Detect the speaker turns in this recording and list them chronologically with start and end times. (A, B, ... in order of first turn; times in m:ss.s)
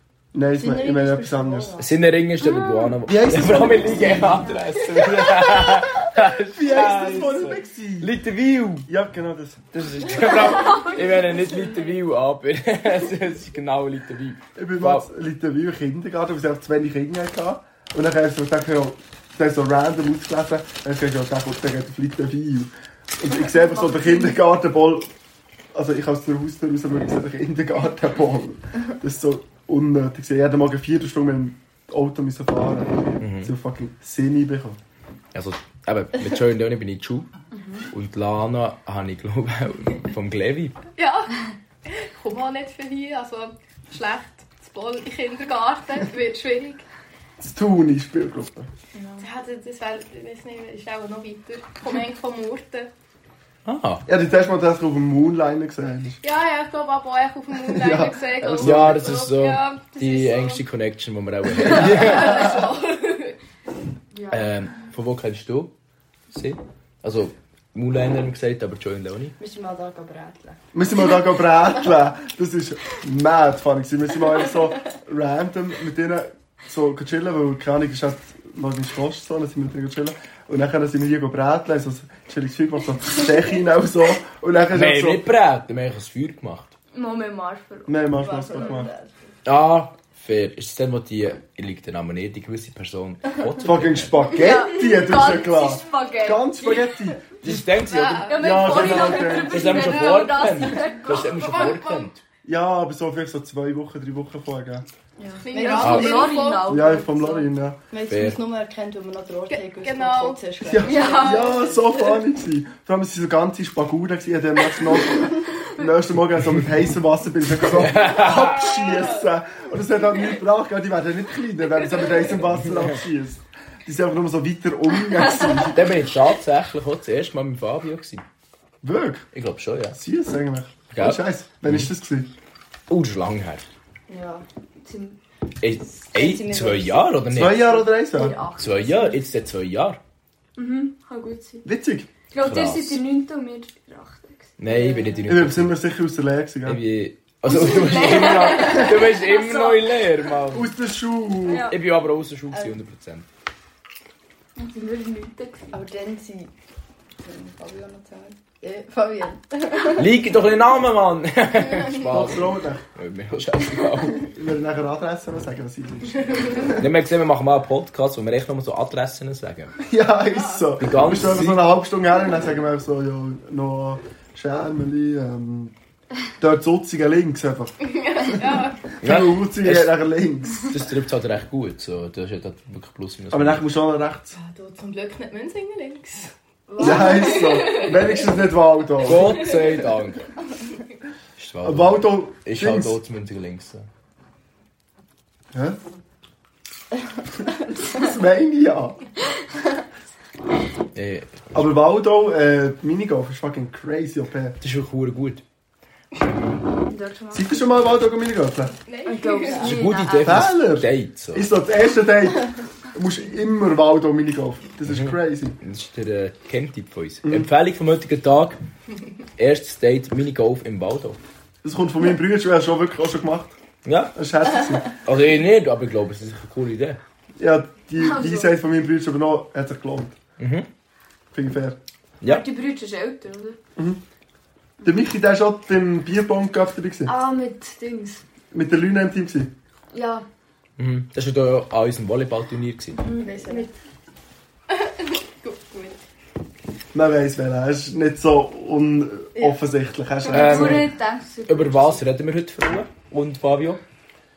0:00.3-0:01.8 A
0:00.6-0:01.9 B
0:01.8-0:08.9 C
0:03.0-0:04.5 A
0:05.7-0:08.2 A
0:08.9-0:10.7 A
0:09.8-0:15.1 C
0:10.6-0:11.0 D
0:14.6-0:25.1 A
0:23.3-0:24.4 D
0:25.7-0:34.8 A
0:33.2-0:33.5 C
0:35.3-0:37.3 C
0:37.5-0:37.8 D
0:37.9-0:40.8 C
0:41.0-0:46.8 E
0:47.4-0:48.7 A
0:49.0-0:49.3 D
0:49.2-0:52.9 E
0:53.6-0:54.0 C
0:54.1-0:56.2 A
0:56.2-1:00.6 E
0:57.7-0:59.1 A
0:58.5-1:02.5 C
1:01.6-1:03.4 E
1:01.8-1:02.6 B
1:04.1-1:04.5 D
1:04.3-1:05.7 C
1:06.3-1:09.4 C
1:09.4-1:10.6 B
1:10.7-1:25.2 A
1:24.7-1:26.8 C
1:26.9-1:28.8 D
1:27.9-1:28.9 A
1:28.2-1:29.1 B
1:29.4-1:34.2 C
1:33.6-1:37.3 A
1:34.3-1:36.8 D
1:37.4-1:42.2 C
1:37.9-1:38.4 E
1:38.2-1:41.7 D
1:38.3-1:39.9 A
1:40.9-1:42.1 E
1:42.4-1:44.9 A
1:45.2-1:47.5 D
1:45.4-1:46.7 E
1:45.5-1:46.2 B
1:45.8-1:46.2 C
1:46.6-1:47.8 A
1:47.9-1:52.2 B
1:48.1-1:48.4 C
1:49.8-1:50.4 E
1:50.6-2:05.9 A
1:50.8-1:51.6 D
1:57.6-1:58.9 C
2:02.4-2:03.0 C
2:05.7-2:08.2 C
2:08.8-2:09.3 A
2:09.3-2:10.0 C
2:09.9-2:12.3 A
2:10.9-2:11.9 C
2:12.9-2:13.7 C
2:14.1-2:14.4 B
2:14.8-2:15.2 D
2:15.6-2:17.8 C
2:16.1-2:17.2 B
2:17.3-2:18.4 A
2:18.1-2:19.2 D
2:18.6-2:20.0 C
2:20.6-2:21.7 D
2:21.6-2:22.1 A
2:22.3-2:25.2 D
2:22.4-2:23.0 C
2:24.6-2:25.8 C
2:25.3-2:26.8 A
2:26.7-2:30.7 C
2:27.4-2:30.0 D
2:30.5-2:31.7 A
2:31.4-2:31.8 D
2:31.6-2:33.2 C
2:32.5-2:32.8 B
2:34.6-2:35.8 D
2:35.7-2:36.5 B
2:37.2-2:40.1 B
2:40.0-2:44.3 C
2:42.1-2:42.8 A
2:44.2-2:46.7 A
2:46.8-2:49.8 C
2:49.8-2:55.7 A
2:50.2-2:50.7 E
2:50.8-2:51.7 C
2:56.4-2:57.8 A
2:57.8-2:58.9 E
2:59.0-3:00.7 A
2:59.0-3:00.0 C
3:00.6-3:03.7 C
3:03.3-3:04.4 A
3:04.3-3:08.3 E
3:06.7-3:07.5 B
3:06.8-3:09.5 A
3:09.0-3:10.2 C
3:11.4-3:13.8 C
3:11.6-3:13.0 A
3:15.5-3:15.8 A
3:17.9-3:19.0 A
3:21.0-3:21.7 C
3:21.5-3:24.6 A
3:24.6-3:25.4 C
3:26.9-3:27.6 D
3:27.3-3:28.8 A
3:28.9-3:29.8 E
3:29.0-3:30.5 D
3:29.5-3:31.5 C
3:30.2-3:35.6 A
3:34.8-3:38.6 C
3:39.4-3:41.2 C
3:41.6-3:43.6 A
3:43.8-3:44.1 C
3:44.1-3:44.9 A
3:45.0-3:47.0 C
3:47.4-3:50.2 A
3:48.0-3:48.5 D
3:50.4-3:50.6 C
3:51.3-3:51.8 A
3:52.2-3:52.5 C
3:52.2-3:53.6 D
3:53.8-3:54.0 A
3:54.8-3:57.1 A
3:57.0-3:58.2 D
3:58.5-3:59.5 A
3:59.9-4:00.2 D
4:00.8-4:03.0 C
4:03.0-4:03.7 D
4:03.1-4:03.7 B
4:04.7-4:06.0 E
4:06.9-4:10.9 A
4:09.4-4:09.6 B
4:10.3-4:12.0 D
4:10.3-4:10.9 C
4:11.5-4:13.8 C